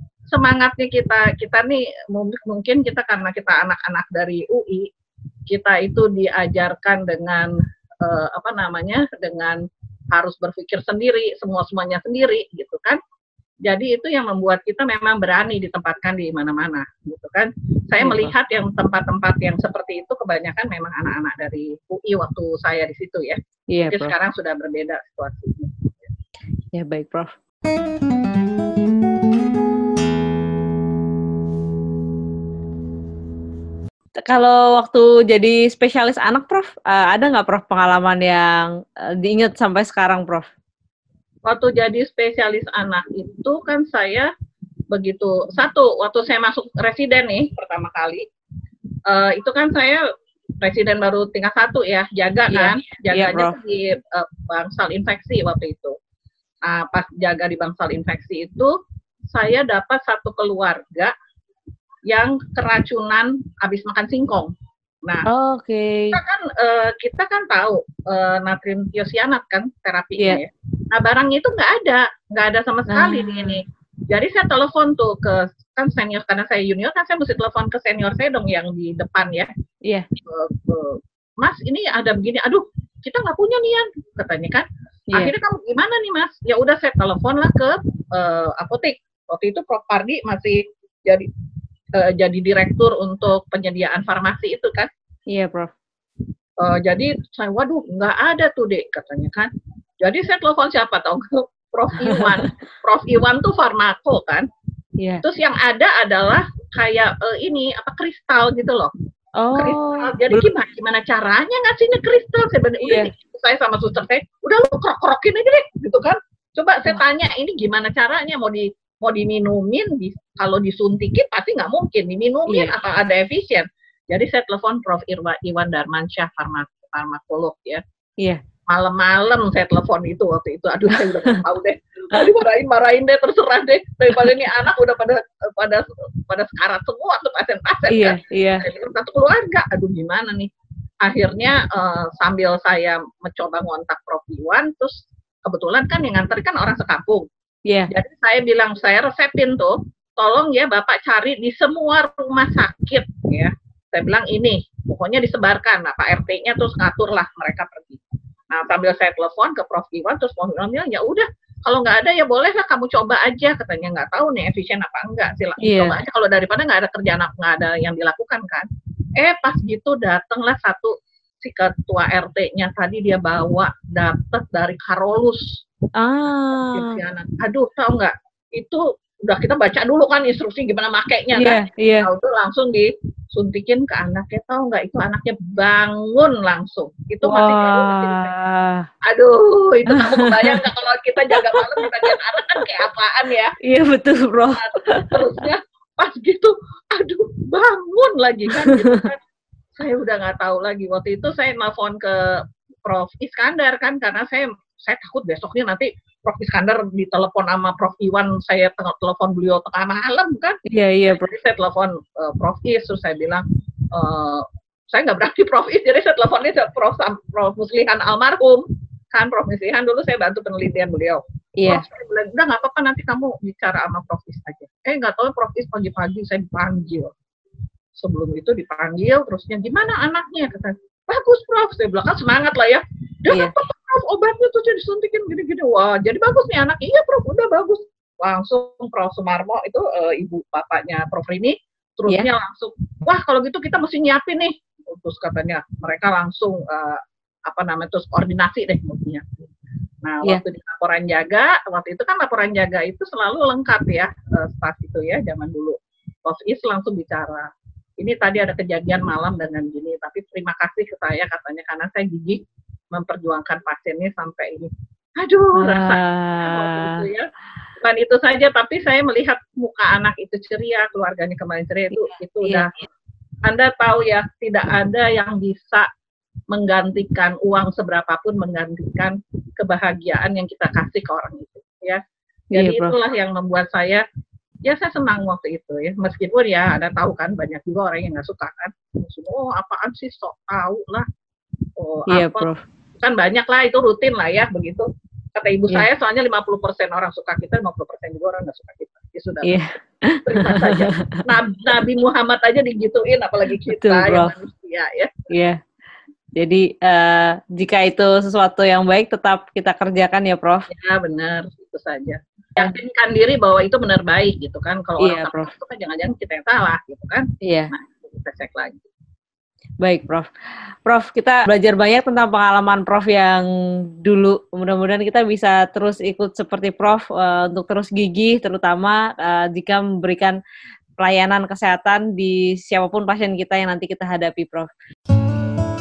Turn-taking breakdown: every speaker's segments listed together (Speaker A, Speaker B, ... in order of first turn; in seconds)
Speaker A: 0.3-4.9, 5.5-13.0, 13.7-26.1, 41.5-44.3, 44.9-48.2, 49.1-50.0, 50.6-56.0, 56.6-58.7, 59.3-61.1, 62.1-64.5, 66.1-79.5, 80.3-91.3, 92.0-94.9, 96.6-104.5, 105.2-108.9, 109.5-127.8, 128.7-140.5, 141.0-147.3, 147.9-175.6, 176.6-188.3, 189.1-193.6, 194.5-199.2, 199.8-227.1, 228.0-249.4, 250.0-262.4, 262.9-267.3, 267.8-272.7, 273.4-275.9, 276.5-282.0, 282.5-284.0, 284.6-291.1, 291.8-292.5, 293.0-299.6, 300.2-305.3, 310.7-318.9
Speaker B: 18.0-18.3, 23.7-24.1, 26.7-27.3, 34.2-40.5, 52.5-53.6, 65.3-66.2, 72.9-73.6, 95.3-95.7, 102.0-102.5, 109.4-110.5, 112.8-113.1, 122.5-122.7, 137.9-138.7, 165.6-165.9, 176.0-177.0, 181.3-182.1, 187.2-188.9, 189.9-190.6, 191.3-192.1, 193.6-195.3, 198.5-199.1, 210.7-211.3, 221.6-221.8, 265.6-267.1, 271.9-272.7, 282.5-282.9, 292.1-292.6, 299.4-301.2, 303.6-304.4, 305.3-305.6, 306.4-310.7, 315.0-315.5, 317.4-317.7, 319.8-320.3, 320.9-330.4, 331.0-334.7